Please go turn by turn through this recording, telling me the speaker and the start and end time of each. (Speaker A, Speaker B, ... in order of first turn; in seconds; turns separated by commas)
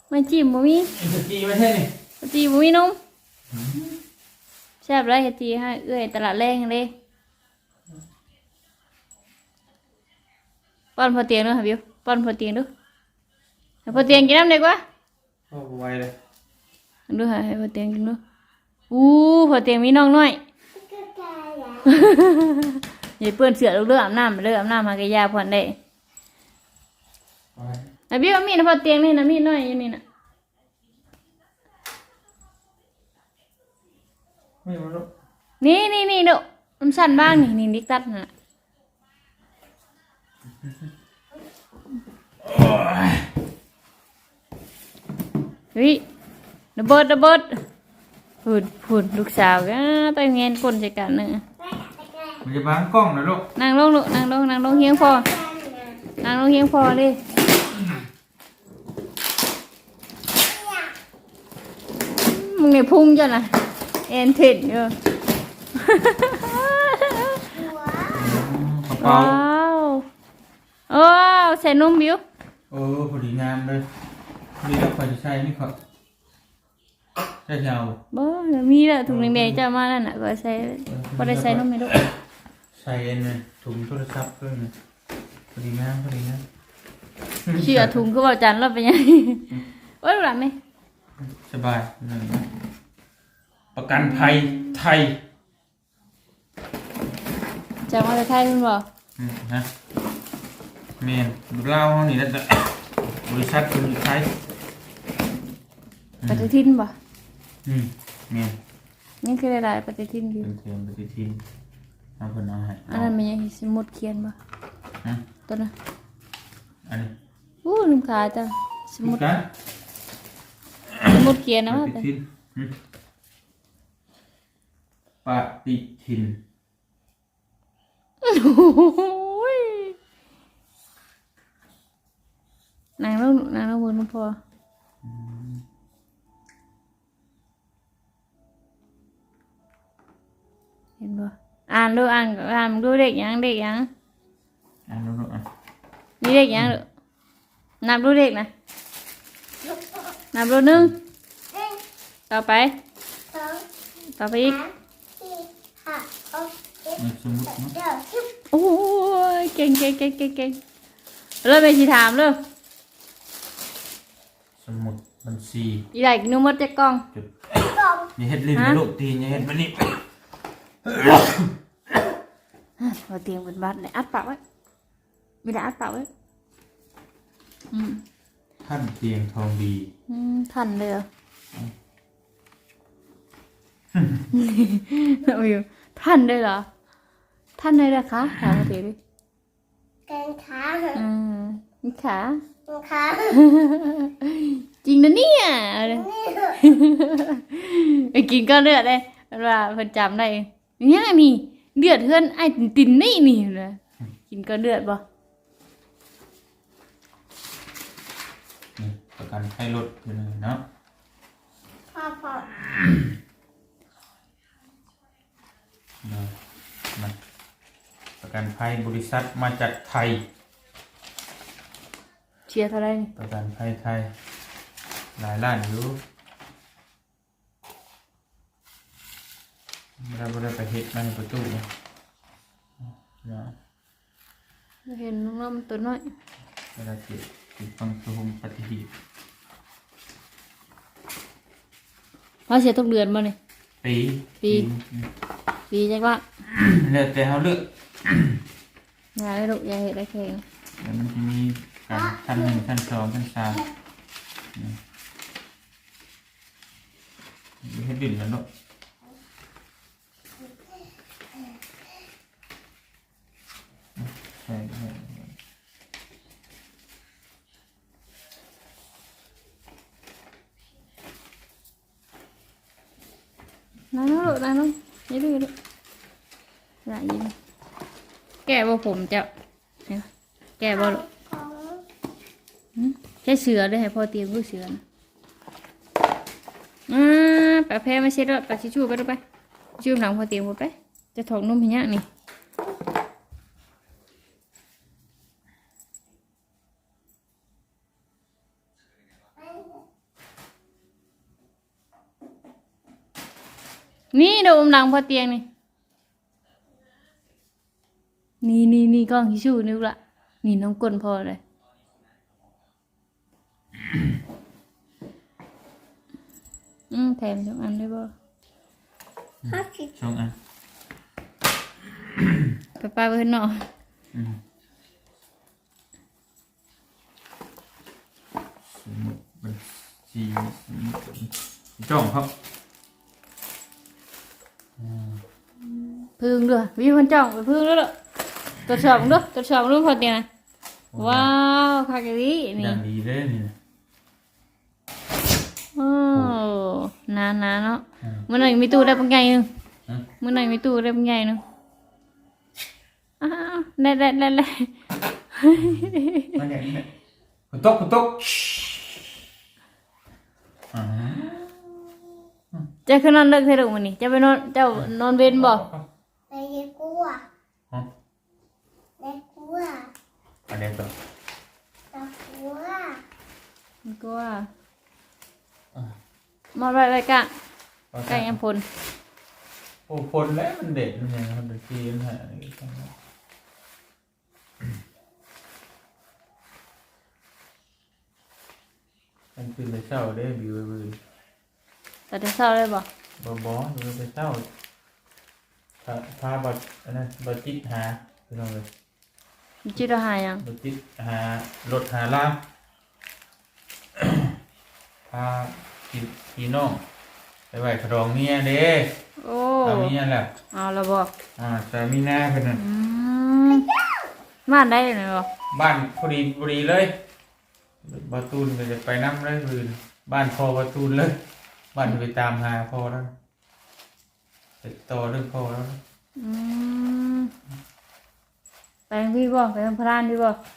Speaker A: 0.1-0.9, Speaker B: 0.9-1.9, Speaker A: 2.2-3.0, Speaker B: 3.5-4.0, Speaker A: 4.8-6.9, Speaker A: 11.0-12.7, Speaker A: 13.9-14.8, Speaker B: 13.9-14.3, Speaker B: 15.5-16.1, Speaker A: 17.1-18.2, Speaker A: 18.9-20.4, Speaker C: 20.7-22.0, Speaker A: 21.9-25.8, Speaker B: 27.6-27.9, Speaker A: 28.1-30.0, Speaker B: 34.6-35.1, Speaker A: 35.6-38.3, Speaker B: 42.4-43.3, Speaker A: 45.8-46.0, Speaker A: 46.8-47.6, Speaker A: 48.4-51.4, Speaker C: 51.6-52.4, Speaker B: 52.4-53.5, Speaker A: 53.6-55.3, Speaker C: 54.7-56.0, Speaker A: 56.2-57.2, Speaker C: 60.4-61.0, Speaker A: 62.2-63.5, Speaker A: 64.1-64.9, Speaker A: 65.8-67.5, Speaker C: 67.5-68.3, Speaker B: 68.1-69.4, Speaker A: 69.0-70.1, Speaker A: 70.9-72.2, Speaker B: 72.7-73.9, Speaker B: 74.6-75.8, Speaker B: 77.5-78.0, Speaker A: 78.1-82.0, Speaker B: 79.1-79.6, Speaker B: 80.9-82.2, Speaker B: 82.7-84.8, Speaker B: 85.5-86.5, Speaker B: 87.5-88.0, Speaker A: 87.6-90.6, Speaker B: 91.2-92.5, Speaker B: 93.8-95.2, Speaker A: 93.9-94.8, Speaker A: 97.9-98.9, Speaker B: 99.2-99.7, Speaker B: 101.0-104.4, Speaker B: 106.2-106.5, Speaker A: 106.3-107.0, Speaker B: 107.7-108.6, Speaker A: 109.2-110.5, Speaker B: 110.4-111.4, Speaker B: 112.2-113.1, Speaker A: 112.9-114.4, Speaker B: 116.9-117.1, Speaker A: 117.7-119.2, Speaker B: 119.0-119.5, Speaker B: 120.9-122.8, Speaker A: 121.1-122.1, Speaker B: 125.2-126.4, Speaker A: 128.2-130.0, Speaker A: 133.0-134.4, Speaker B: 135.0-135.7, Speaker A: 141.0-143.9, Speaker B: 144.9-145.5, Speaker A: 146.2-146.9, Speaker A: 147.8-148.5, Speaker C: 149.7-150.1, Speaker A: 150.3-151.0, Speaker C: 151.5-151.8, Speaker A: 152.3-152.8, Speaker C: 153.3-153.7, Speaker A: 154.2-154.6, Speaker C: 154.4-158.4, Speaker B: 157.0-157.8, Speaker A: 158.5-160.6, Speaker A: 161.4-162.4, Speaker B: 164.6-165.8, Speaker A: 165.9-167.1, Speaker B: 167.1-170.0, Speaker C: 167.6-168.1, Speaker B: 170.8-171.5, Speaker A: 172.8-174.4, Speaker A: 175.4-176.1, Speaker A: 177.7-178.0, Speaker B: 178.6-179.9, Speaker A: 180.1-181.1, Speaker B: 183.9-184.2, Speaker A: 184.3-186.7, Speaker A: 187.6-189.0, Speaker C: 190.1-191.0, Speaker A: 190.9-192.4, Speaker C: 192.7-193.5, Speaker A: 193.3-196.1, Speaker C: 195.9-196.8, Speaker A: 196.6-205.0, Speaker B: 208.8-210.6, Speaker C: 211.9-212.5, Speaker B: 216.0-216.4, Speaker B: 218.2-220.2, Speaker A: 222.5-223.1, Speaker B: 223.2-224.1, Speaker B: 225.2-226.0, Speaker B: 230.0-231.7, Speaker B: 232.8-233.6, Speaker A: 234.9-236.1, Speaker B: 236.8-238.9, Speaker A: 242.5-243.4, Speaker B: 243.8-245.1, Speaker A: 244.4-244.7, Speaker A: 245.7-246.2, Speaker B: 246.4-248.4, Speaker A: 249.2-250.4, Speaker B: 250.8-253.6, Speaker C: 251.9-252.7, Speaker B: 254.5-254.8, Speaker B: 257.6-258.5, Speaker B: 264.0-265.3, Speaker A: 273.9-275.5, Speaker A: 276.9-277.3, Speaker A: 278.5-279.3, Speaker A: 280.6-281.0, Speaker C: 280.7-281.9, Speaker A: 282.8-284.8, Speaker A: 286.9-289.2, Speaker A: 289.8-292.1, Speaker C: 299.4-299.8, Speaker A: 304.1-305.4, Speaker A: 308.4-311.4, Speaker A: 316.9-318.1, Speaker B: 319.4-320.4, Speaker C: 319.5-319.9, Speaker B: 322.0-322.6, Speaker A: 322.8-323.7, Speaker B: 324.1-324.4, Speaker B: 328.7-332.3, Speaker B: 334.8-335.2, Speaker A: 335.7-337.9, Speaker A: 338.7-340.3, Speaker B: 340.9-341.3, Speaker A: 341.0-342.8, Speaker B: 342.6-343.6, Speaker A: 345.8-349.5, Speaker B: 346.1-346.4, Speaker C: 348.5-349.1, Speaker A: 350.2-351.4, Speaker A: 353.2-354.7, Speaker A: 355.3-356.4, Speaker B: 355.6-356.9, Speaker B: 357.5-358.9, Speaker B: 360.7-361.7, Speaker A: 362.9-365.6, Speaker B: 364.7-365.9, Speaker C: 366.3-367.2, Speaker C: 369.0-369.9, Speaker B: 370.5-370.9, Speaker C: 371.9-373.0, Speaker A: 373.9-374.5, Speaker A: 376.6-377.3, Speaker B: 377.9-378.4, Speaker A: 378.1-378.6, Speaker B: 379.9-382.9, Speaker B: 389.4-391.0, Speaker A: 392.1-392.9, Speaker B: 393.2-394.5, Speaker B: 395.8-398.7, Speaker A: 399.6-400.4, Speaker B: 400.4-402.4, Speaker B: 403.9-404.4, Speaker B: 405.1-406.8, Speaker B: 407.5-409.0, Speaker A: 409.2-409.9, Speaker B: 409.6-410.3, Speaker A: 410.5-411.1, Speaker B: 411.4-412.6, Speaker A: 412.6-413.7, Speaker C: 413.5-414.1, Speaker A: 414.5-415.3, Speaker B: 415.5-416.9, Speaker B: 417.8-421.2, Speaker B: 421.7-423.1, Speaker B: 424.6-425.8, Speaker A: 426.2-427.3, Speaker A: 428.9-430.4